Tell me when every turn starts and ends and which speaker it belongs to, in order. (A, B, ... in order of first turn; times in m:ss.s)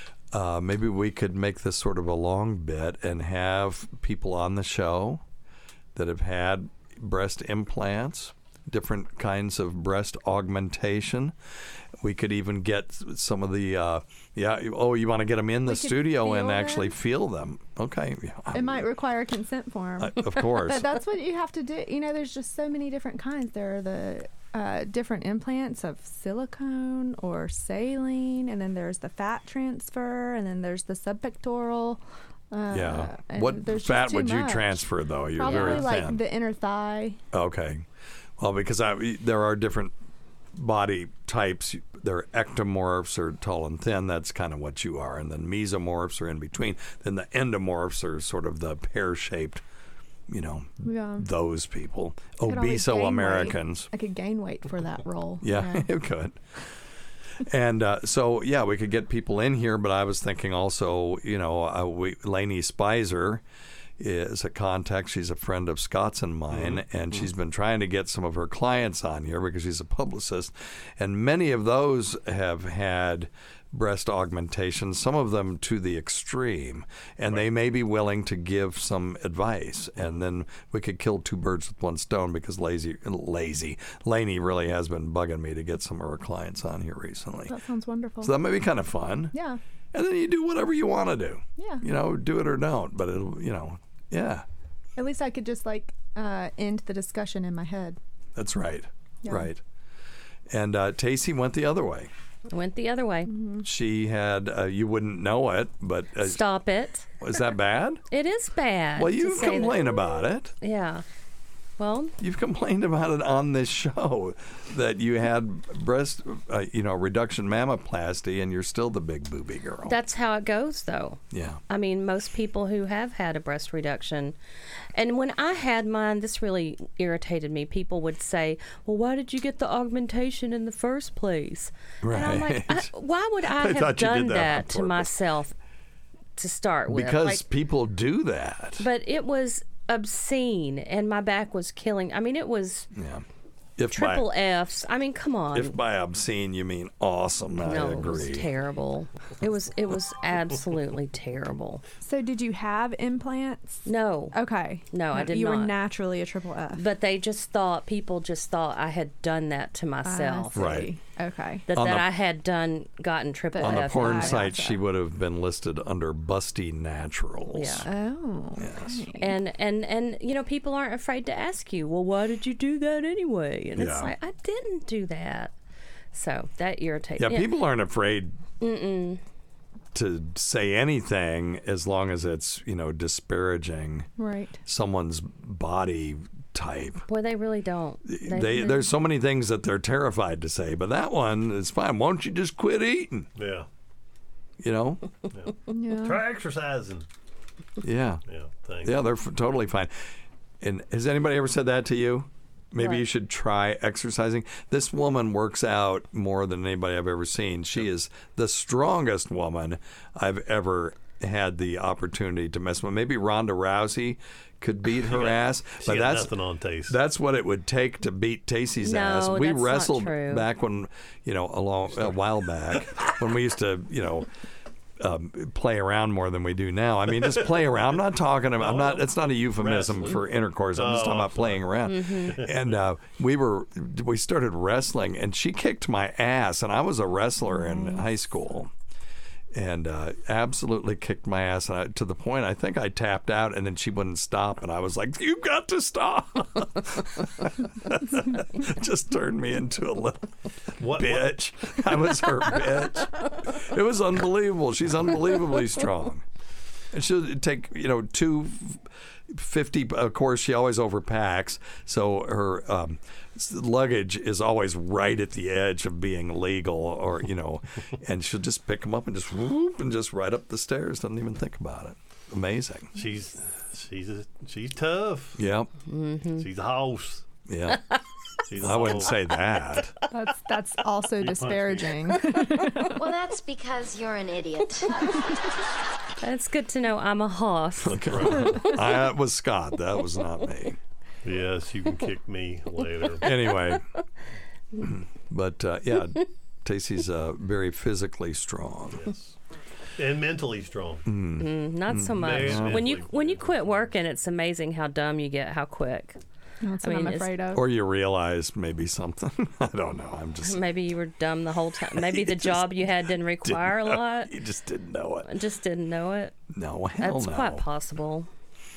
0:00.3-0:05.2 A
0:05.9-0:11.3 A
0:12.0-0:18.9 A
0:15.6-0:16.9 B
0:18.5-0:34.8 B
0:20.0-0:20.9 A
0:32.7-0:36.2 A
0:35.4-0:37.2 B
0:35.4-0:35.9 C
0:37.3-0:37.8 A
0:38.4-0:39.9 A
0:40.5-0:49.6 A
0:50.3-0:53.9 A
0:50.8-0:51.3 B
0:52.4-0:55.9 B
0:55.4-0:56.4 A
0:57.4-1:03.4 A
1:04.0-1:27.5 A
1:06.5-1:07.3 D
1:27.5-1:28.3 B
1:28.2-1:29.3 A
1:29.3-1:29.6 B
1:29.9-1:34.4 A
1:31.6-1:31.8 B
1:35.0-1:38.0 B
1:38.4-1:39.6 A
1:39.2-1:39.5 B
1:40.5-1:42.1 A
1:42.5-1:43.3 C
1:43.3-1:43.6 B
1:43.6-1:46.4 A
1:46.2-1:47.1 C
1:47.2-1:48.0 A
1:48.1-1:51.0 C
1:49.0-1:50.5 A
1:51.8-1:52.1 C
1:52.2-2:00.0 A
1:59.8-2:04.4 C
2:01.3-2:01.6 A
2:04.9-2:15.5 C
2:12.0-2:12.9 A
2:12.2-2:12.5 B
2:13.4-2:15.1 A
2:16.4-2:17.4 C
2:16.9-2:18.8 A
2:18.8-2:22.9 C
2:22.9-2:23.2 A
2:23.8-2:24.2 A
2:23.9-2:25.8 C
2:25.5-2:28.5 A
2:27.6-2:31.8 C
2:32.0-2:36.8 B
2:33.8-2:34.4 C
2:34.9-2:35.7 C
2:36.7-2:40.7 C
2:40.0-2:41.6 B
2:40.5-2:40.9 A
2:41.7-2:44.5 C
2:41.7-2:42.0 A
2:43.5-2:44.8 B
2:43.6-2:47.9 A
2:47.5-2:47.8 C
2:47.8-2:49.3 B
2:48.6-2:49.0 A
2:49.2-2:55.5 C
2:53.8-2:54.1 A
2:56.1-2:57.5 C
2:57.2-2:58.3 A
2:58.6-2:59.2 C
2:59.9-3:04.1 A
3:04.2-3:04.6 B
3:04.6-3:07.0 A
3:07.1-3:08.8 C
3:08.0-3:13.3 A
3:13.4-3:13.7 D
3:14.6-3:15.0 A
3:15.3-3:17.0 D
3:15.7-3:16.2 B
3:17.8-3:18.2 A
3:18.3-3:19.0 D
3:18.8-3:20.1 A
3:20.6-3:36.3 A
3:35.0-3:37.0 D
3:36.9-3:44.3 A
3:38.8-3:40.4 C
3:41.9-3:42.2 D
3:42.7-3:43.0 D
3:45.0-3:58.7 A
3:48.6-3:52.8 D
3:51.9-3:52.4 C
3:57.5-3:58.0 B
3:59.5-4:16.2 A
4:10.8-4:11.4 D
4:16.9-4:32.9 A
4:32.9-4:35.4 D
4:35.4-4:35.7 A
4:35.9-4:36.4 C
4:36.4-4:37.3 D
4:37.5-4:37.8 A
4:38.5-4:39.2 D
4:38.6-4:39.9 A
4:40.1-4:43.1 B
4:41.2-4:42.0 D
4:42.9-4:45.1 E
4:46.2-4:48.5 C
4:47.8-4:50.8 A
4:47.9-4:48.7 D
4:51.2-4:53.3 D
4:53.2-4:53.8 A
4:54.8-4:59.2 A
5:00.0-5:01.1 D
5:01.0-5:02.8 A
5:01.4-5:06.2 C
5:02.1-5:03.8 D
5:06.6-5:07.6 B
5:06.8-5:07.3 C
5:07.5-5:10.6 A
5:10.4-5:14.3 C
5:11.9-5:15.3 A
5:15.2-5:16.3 C
5:16.5-5:17.6 A
5:17.0-5:18.3 C